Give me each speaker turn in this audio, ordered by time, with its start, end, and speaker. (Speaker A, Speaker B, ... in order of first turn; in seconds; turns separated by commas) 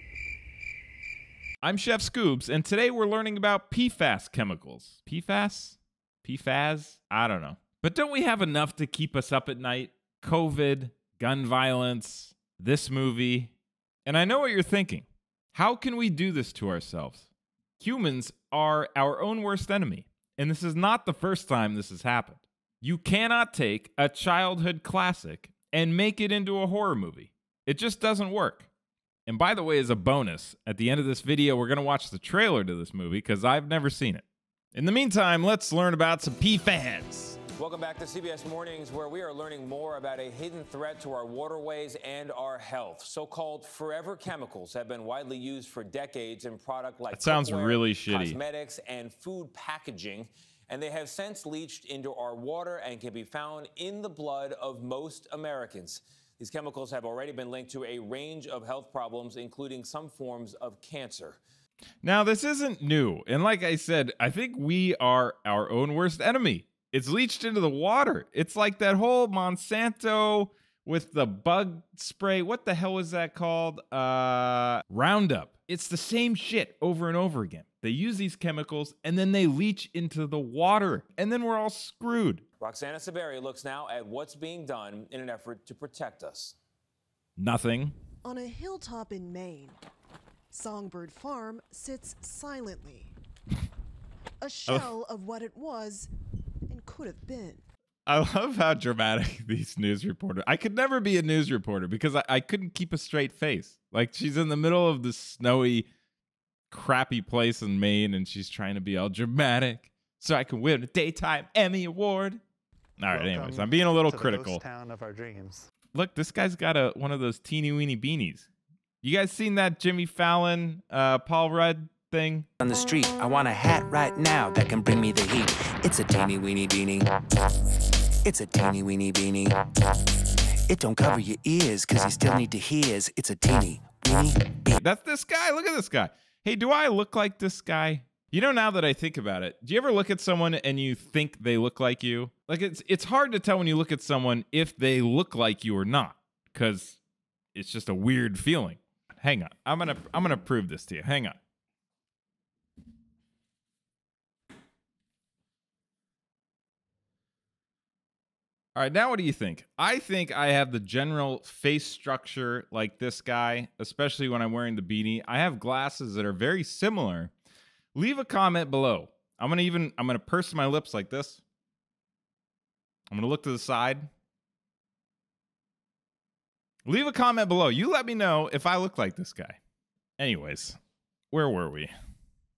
Speaker A: 1.6-13.5, Speaker A: 14.0-17.3, Speaker A: 17.8-28.7, Speaker A: 29.3-37.4, Speaker B: 37.6-61.4, Speaker A: 47.1-48.4, Speaker A: 62.0-82.4, Speaker B: 82.6-86.5, Speaker A: 87.4-88.0, Speaker C: 88.2-89.8, Speaker C: 90.5-93.1, Speaker C: 94.4-96.1, Speaker C: 96.7-97.6, Speaker A: 98.1-105.9, Speaker A: 106.7-112.4, Speaker A: 113.0-114.6, Speaker D: 113.1-115.7, Speaker A: 115.9-118.5, Speaker A: 119.0-122.5, Speaker E: 122.6-127.0, Speaker E: 128.2-129.5, Speaker E: 130.7-134.8, Speaker A: 134.8-147.0, Speaker A: 147.5-151.4, Speaker A: 158.7-167.3, Speaker A: 167.9-171.4, Speaker A: 173.1-174.1, Speaker A: 176.8-179.6, Speaker A: 180.2-180.8, Speaker A: 181.3-181.9